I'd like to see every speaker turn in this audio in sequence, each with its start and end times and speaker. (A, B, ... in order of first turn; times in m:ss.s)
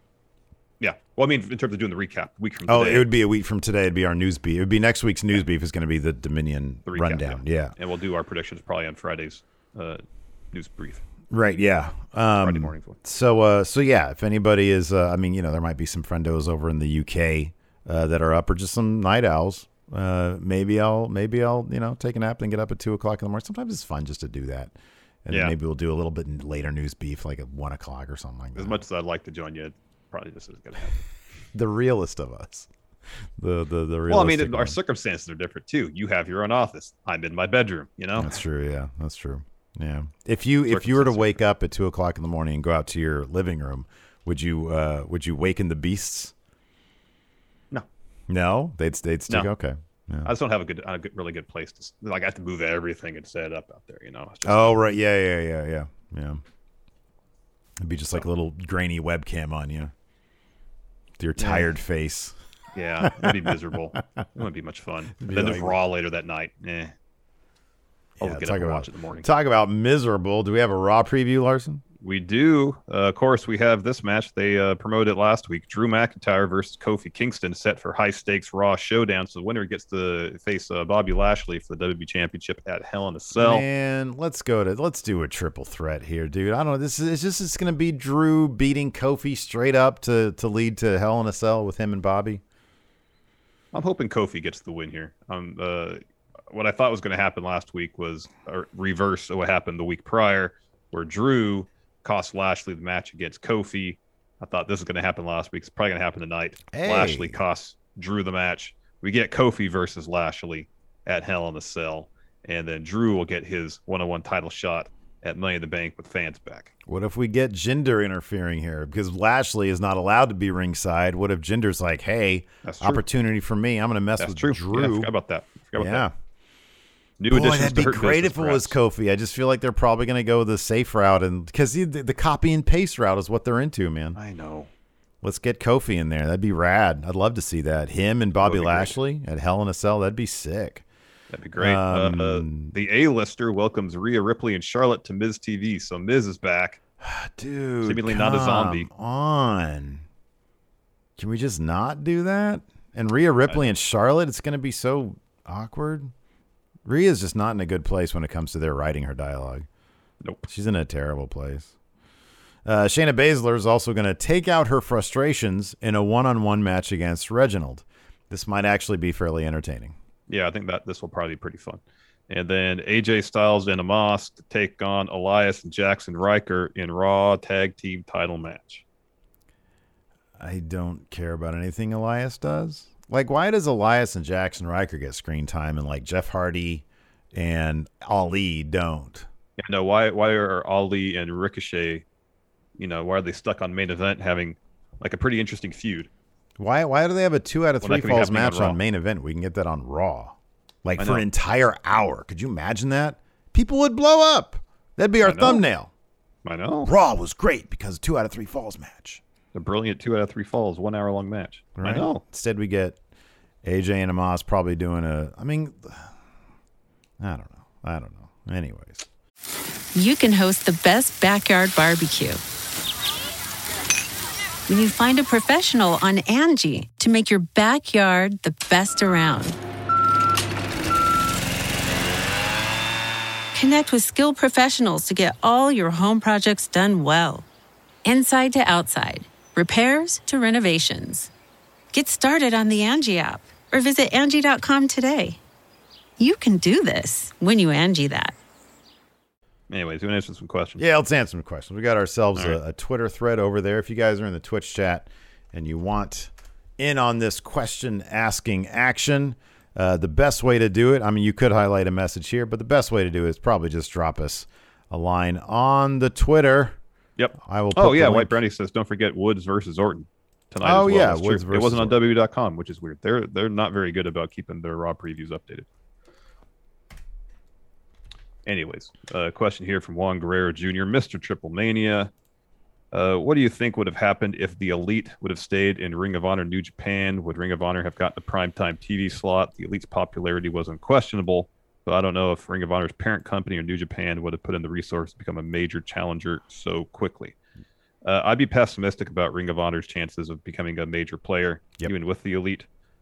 0:00.8-0:03.1 A
0:02.7-0:07.7 B
0:06.9-0:11.0 A
0:11.3-0:24.7 B
0:12.4-0:13.0 A
0:25.3-0:28.8 B
0:28.6-0:31.1 A
0:31.5-0:32.7 B
0:33.4-0:34.8 B
0:34.1-0:38.4 A
0:38.2-0:46.3 B
0:40.7-0:41.4 A
0:48.3-0:50.3 B
0:50.2-0:54.8 A
0:54.4-0:56.4 B
0:57.8-0:59.9 B
1:01.2-1:02.4 B
1:01.4-1:01.7 A
1:02.7-1:06.9 A
1:03.0-1:03.5 B
1:05.2-1:05.8 B
1:08.2-1:11.8 B
1:08.2-1:09.3 A
1:12.0-1:23.7 A
1:23.4-1:32.4 B
1:33.7-1:56.7 A
1:46.7-1:47.4 B
1:56.9-2:05.1 B
2:02.6-2:03.0 A
2:04.2-2:06.1 A
2:05.8-2:06.1 B
2:07.2-2:08.8 A
2:07.3-2:14.2 B
2:14.2-2:14.7 A
2:15.2-2:20.8 B
2:18.4-2:19.0 A
2:21.3-2:26.8 A
2:21.6-2:22.7 B
2:27.0-2:30.0 B
2:27.8-2:28.9 A
2:31.2-2:36.1 B
2:36.9-2:39.7 B
2:40.5-2:41.7 B
2:42.6-2:50.0 B
2:50.3-2:58.8 A
3:00.4-3:09.3 B
3:09.6-3:12.0 A
3:12.8-3:16.1 A
3:16.6-3:25.9 B
3:17.8-3:18.8 A
3:21.0-3:21.2 A
3:25.2-3:25.6 A
3:26.4-3:26.9 A
3:26.8-3:29.2 B
3:29.5-3:32.2 A
3:31.8-3:33.0 B
3:33.6-3:36.1 B
3:37.2-3:39.1 B
3:40.0-3:42.4 C
3:44.7-3:49.6 C
3:53.5-3:57.5 C
3:58.0-4:01.3 C
4:01.9-4:05.4 C
4:06.2-4:08.4 C
4:09.7-4:10.8 A
4:10.8-4:26.8 B
4:27.2-4:35.7 A
4:27.4-4:28.4 B
4:30.6-4:32.0 B
4:38.5-4:42.1 A
4:42.9-4:57.4 A
4:58.0-5:02.7 A